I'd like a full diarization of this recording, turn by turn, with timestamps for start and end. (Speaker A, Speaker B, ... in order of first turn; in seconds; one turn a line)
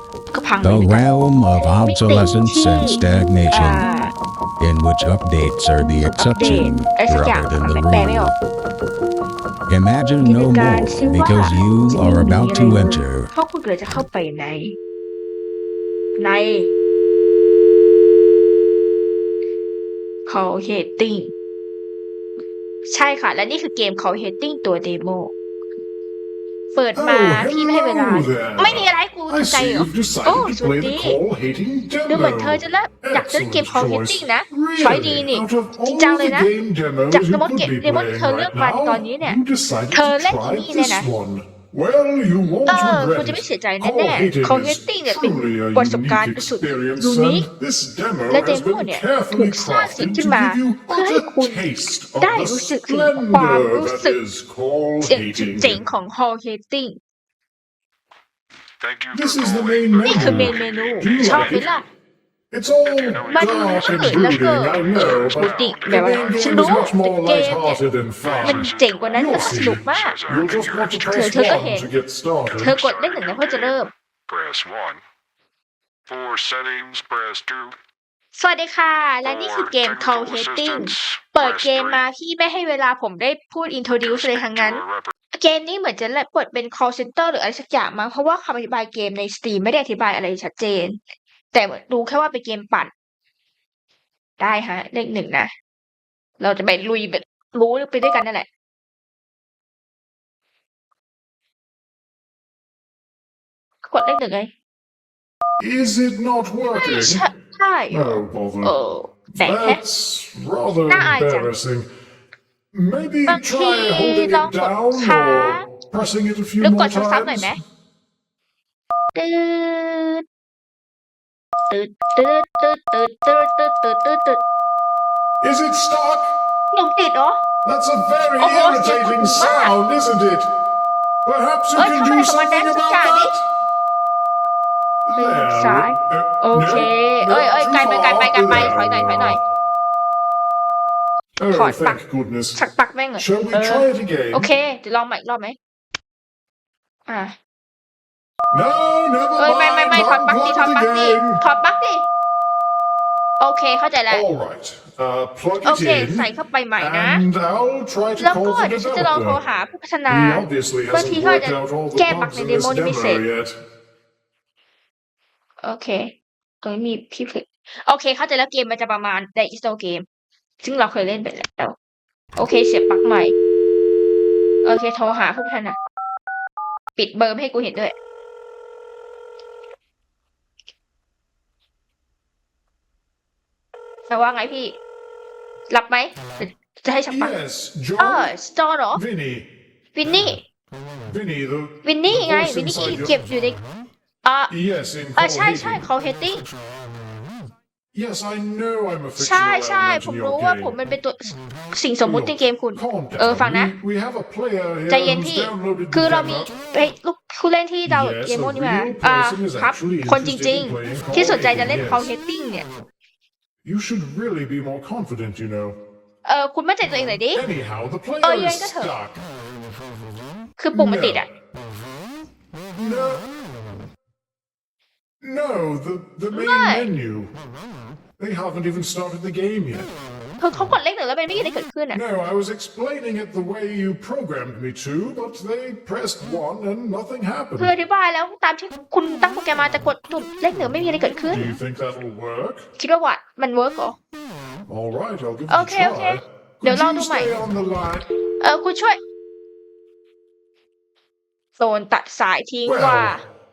Speaker A: 0.3-1.1
Speaker B: 0.6-3.8
Speaker A: 1.8-4.1
Speaker B: 4.6-8.4
Speaker A: 6.1-8.3
Speaker B: 9.7-13.3
Speaker A: 10.2-14.7
Speaker A: 16.2-16.7
Speaker A: 20.2-21.3
Speaker A: 22.9-25.3
Speaker A: 26.7-31.2
Speaker C: 26.9-55.8
Speaker A: 32.1-36.5
Speaker A: 37.1-41.1
Speaker A: 42.6-47.5
Speaker A: 48.3-51.7
Speaker A: 52.2-54.2
Speaker A: 55.0-57.0
Speaker D: 58.8-61.7
Speaker C: 59.1-61.7
Speaker A: 60.0-61.9
Speaker C: 62.5-72.8
Speaker D: 62.9-67.0
Speaker A: 63.3-67.8
Speaker D: 68.2-71.6
Speaker A: 68.4-70.2
Speaker A: 71.1-71.9
Speaker D: 72.5-75.0
Speaker A: 72.6-73.9
Speaker D: 76.1-77.8
Speaker A: 78.3-91.0
Speaker D: 79.2-82.0
Speaker D: 84.0-85.1
Speaker A: 91.5-92.9
Speaker A: 94.4-95.5
Speaker A: 96.4-98.5
Speaker A: 103.8-104.5
Speaker C: 105.6-107.2
Speaker A: 106.7-109.8
Speaker C: 107.9-108.7
Speaker C: 109.3-111.9
Speaker A: 110.9-111.5
Speaker C: 112.7-117.6
Speaker A: 113.3-115.7
Speaker A: 116.6-117.6
Speaker A: 119.1-120.2
Speaker A: 121.7-124.4
Speaker C: 125.4-126.3
Speaker A: 126.7-127.4
Speaker C: 127.6-130.5
Speaker A: 128.4-129.8
Speaker C: 131.2-133.4
Speaker A: 131.7-133.3
Speaker C: 135.0-139.4
Speaker A: 135.1-139.4
Speaker C: 141.4-142.6
Speaker A: 141.5-142.0
Speaker A: 142.5-145.6
Speaker C: 143.2-144.5
Speaker A: 147.1-147.3
Speaker C: 148.5-151.4
Speaker A: 149.4-152.1
Speaker A: 153.4-154.2
Speaker C: 154.1-159.4
Speaker A: 155.6-157.2
Speaker A: 158.2-163.2
Speaker C: 160.1-163.6
Speaker A: 165.6-170.0
Speaker A: 170.6-171.8
Speaker A: 172.3-173.3
Speaker A: 174.6-175.8
Speaker A: 176.9-177.9
Speaker A: 184.1-184.8
Speaker A: 185.7-187.3
Speaker C: 187.1-188.3
Speaker A: 188.0-189.0
Speaker C: 188.9-189.5
Speaker A: 189.9-190.4
Speaker C: 190.1-190.3
Speaker C: 191.1-193.2
Speaker A: 191.8-193.6
Speaker A: 194.2-194.5
Speaker C: 194.5-195.8
Speaker A: 195.2-196.4
Speaker C: 197.9-200.7
Speaker A: 199.2-203.7
Speaker C: 202.0-206.5
Speaker A: 204.9-212.7
Speaker C: 207.8-212.1
Speaker C: 213.6-215.8
Speaker A: 216.2-217.4
Speaker C: 217.3-219.2
Speaker A: 218.2-218.9
Speaker A: 220.6-221.3
Speaker C: 220.7-221.2
Speaker C: 222.7-223.2
Speaker C: 225.2-227.3
Speaker A: 226.3-226.9
Speaker C: 228.2-229.9
Speaker A: 230.4-232.0
Speaker C: 231.9-237.7
Speaker A: 237.6-241.5
Speaker C: 241.3-242.7
Speaker A: 242.8-243.9
Speaker C: 244.7-248.1
Speaker A: 245.5-247.3
Speaker A: 248.4-249.0
Speaker A: 251.6-253.2
Speaker C: 252.6-253.2